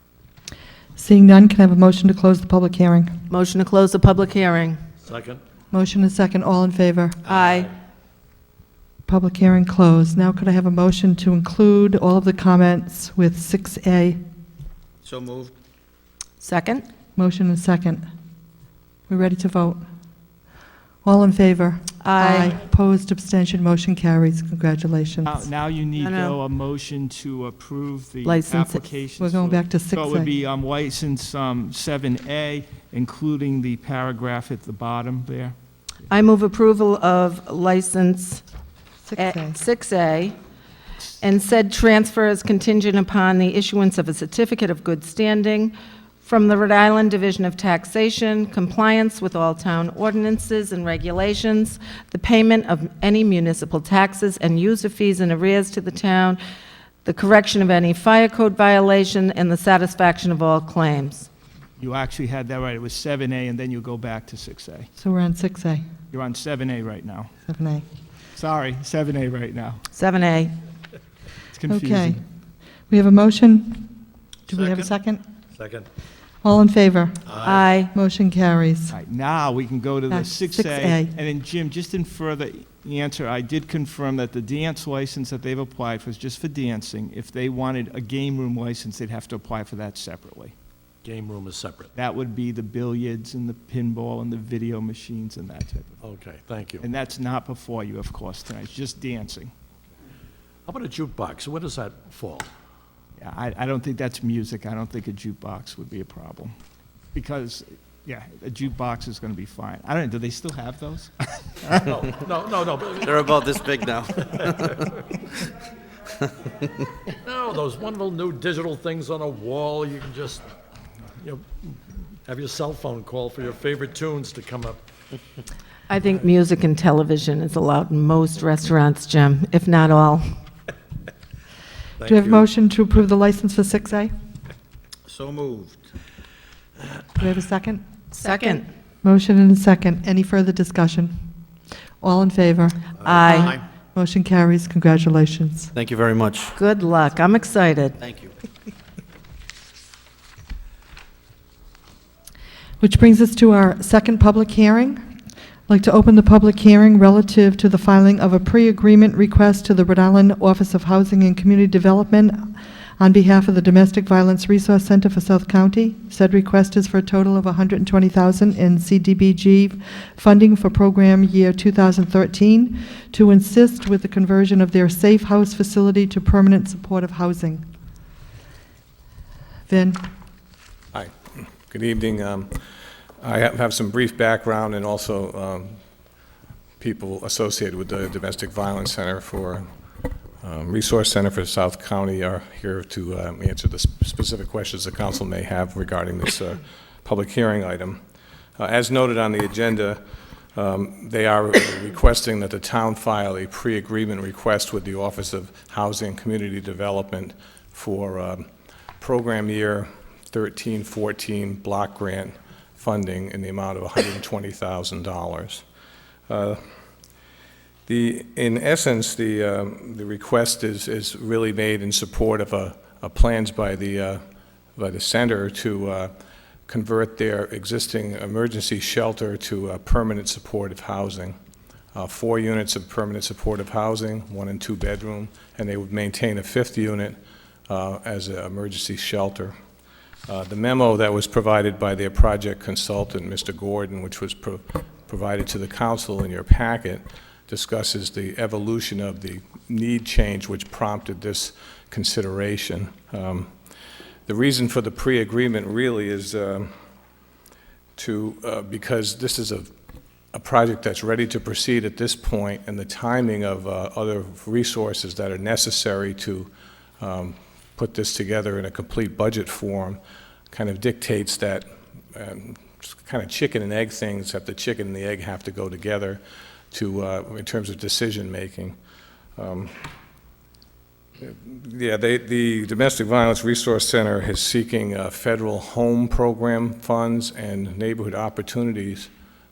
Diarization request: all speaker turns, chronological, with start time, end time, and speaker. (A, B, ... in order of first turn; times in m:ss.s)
0:01.0-0:03.2 A
0:03.3-0:04.8 B
0:05.0-0:05.4 C
0:05.7-0:07.2 A
0:07.2-0:07.7 B
0:09.1-0:14.2 A
0:15.0-0:15.5 D
0:16.4-0:16.8 B
0:17.2-0:18.0 A
0:19.1-0:19.8 A
0:21.0-0:25.5 A
0:22.0-0:22.6 B
0:25.2-0:35.6 E
0:26.0-0:26.4 B
0:28.2-0:28.8 B
0:29.2-0:30.3 A
0:36.1-0:38.4 B
0:39.0-0:39.6 A
0:39.2-0:40.4 B
0:41.2-0:56.4 B
0:57.0-1:01.3 B
1:01.8-1:04.9 E
1:05.0-1:05.8 A
1:06.1-1:07.3 E
1:07.5-1:07.9 A
1:08.4-1:09.8 E
1:09.9-1:10.6 B
1:11.5-1:12.2 E
1:11.7-1:12.2 A
1:12.9-1:13.9 A
1:14.5-1:15.2 A
1:15.5-1:15.9 C
1:16.4-1:17.4 A
1:17.3-1:17.6 C
1:17.4-1:17.9 B
1:17.9-1:19.0 A
1:18.9-1:30.5 E
1:20.1-1:21.1 A
1:31.0-1:31.9 C
1:32.0-1:36.0 E
1:36.0-1:36.9 C
1:36.8-1:39.5 E
1:40.7-1:42.5 C
1:43.2-1:46.5 E
1:47.1-1:52.0 E
1:51.9-1:54.9 C
1:53.0-1:54.8 D
1:57.2-2:00.4 C
2:01.2-2:04.9 C
2:05.9-2:10.3 B
2:12.0-2:12.5 C
2:12.0-2:14.1 A
2:15.1-2:15.9 D
2:17.2-2:21.3 A
2:18.2-2:18.6 B
2:22.0-2:25.7 A
2:23.0-2:23.6 D
2:23.0-2:23.6 B
2:25.7-2:26.5 D
2:26.6-2:28.0 B
2:28.0-2:28.3 D
2:32.8-2:35.0 A
2:35.7-2:57.6 A
2:59.7-3:00.0 A
3:00.9-3:02.5 F
3:03.2-3:05.8 F
3:06.8-3:09.7 F
3:10.4-3:18.0 F
3:18.6-3:20.0 F
3:20.6-3:28.4 F
3:29.0-3:35.6 F
3:36.3-3:36.6 F
3:37.9-3:44.2 F
3:44.8-3:46.1 F
3:46.7-3:51.4 F
3:51.9-3:57.2 F
3:57.7-3:59.6 F
4:00.3-4:13.5 F
4:14.3-4:16.7 F
4:18.0-4:19.7 F
4:20.3-4:30.0 F
4:30.5-4:36.2 F
4:36.7-4:38.8 F
4:39.4-4:39.8 F
4:41.2-4:49.1 F